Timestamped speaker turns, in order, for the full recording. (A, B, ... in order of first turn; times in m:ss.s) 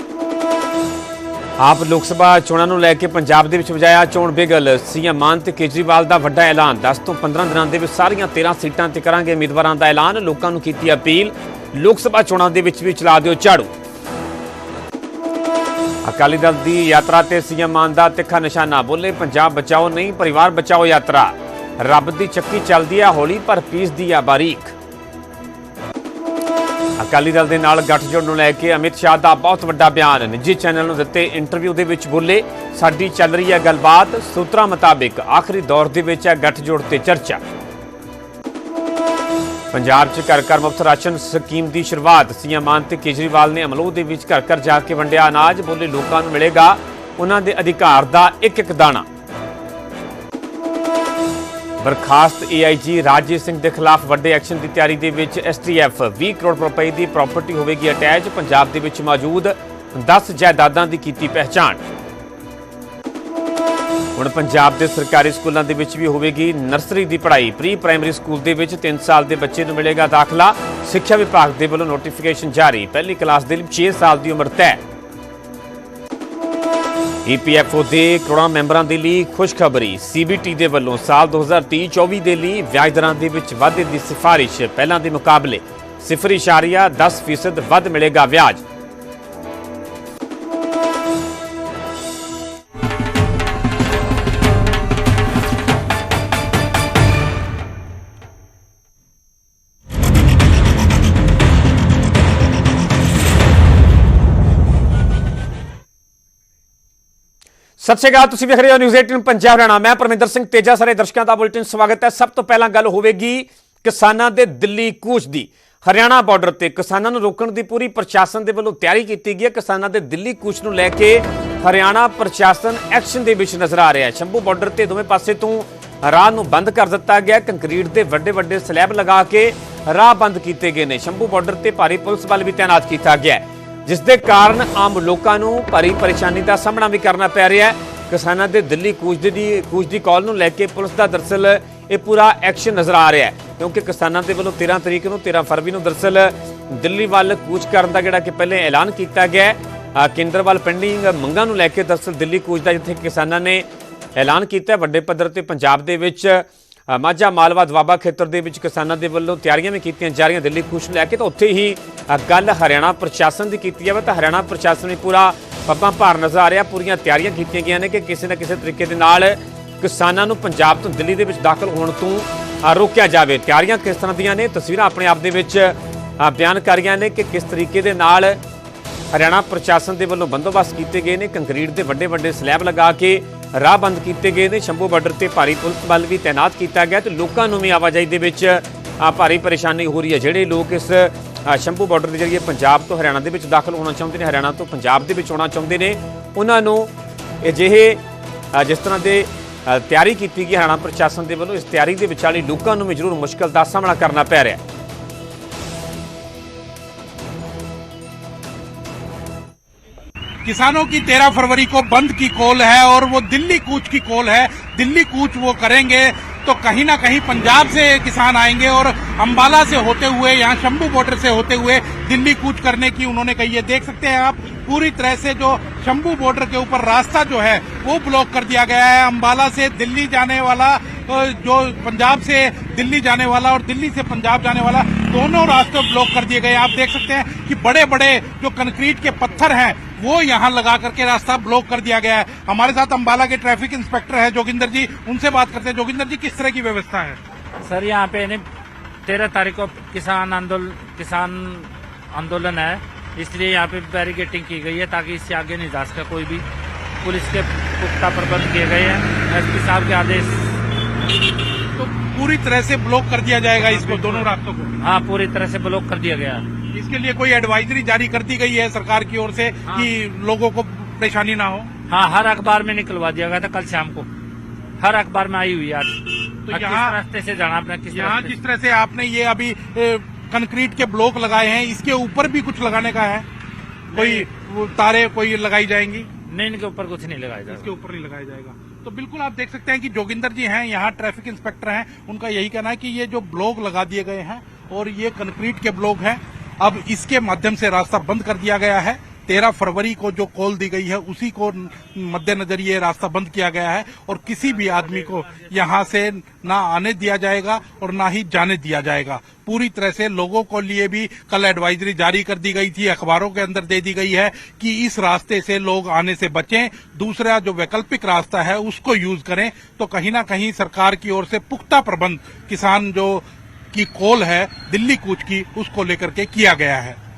0:01.6-0:13.7 A
0:16.0-0:24.8 A
0:27.0-0:37.4 A
0:39.7-0:49.1 A
0:51.8-1:01.8 A
1:04.2-1:14.8 A
1:17.2-1:28.6 A
1:47.8-2:58.4 A
2:59.1-3:18.0 A
3:18.5-3:24.6 A
3:30.4-4:07.2 B
4:07.6-4:08.4 C
4:09.1-4:16.5 C
4:17.0-4:20.6 C
4:21.8-4:24.8 B
4:23.7-4:26.5 C
4:26.7-4:31.7 B
4:31.9-4:34.1 C
4:34.8-4:38.4 C
4:36.5-4:37.0 B
4:37.9-4:43.3 B
4:43.9-4:44.3 C
4:43.9-4:46.1 B
4:46.3-4:47.7 C
4:47.5-5:27.0 B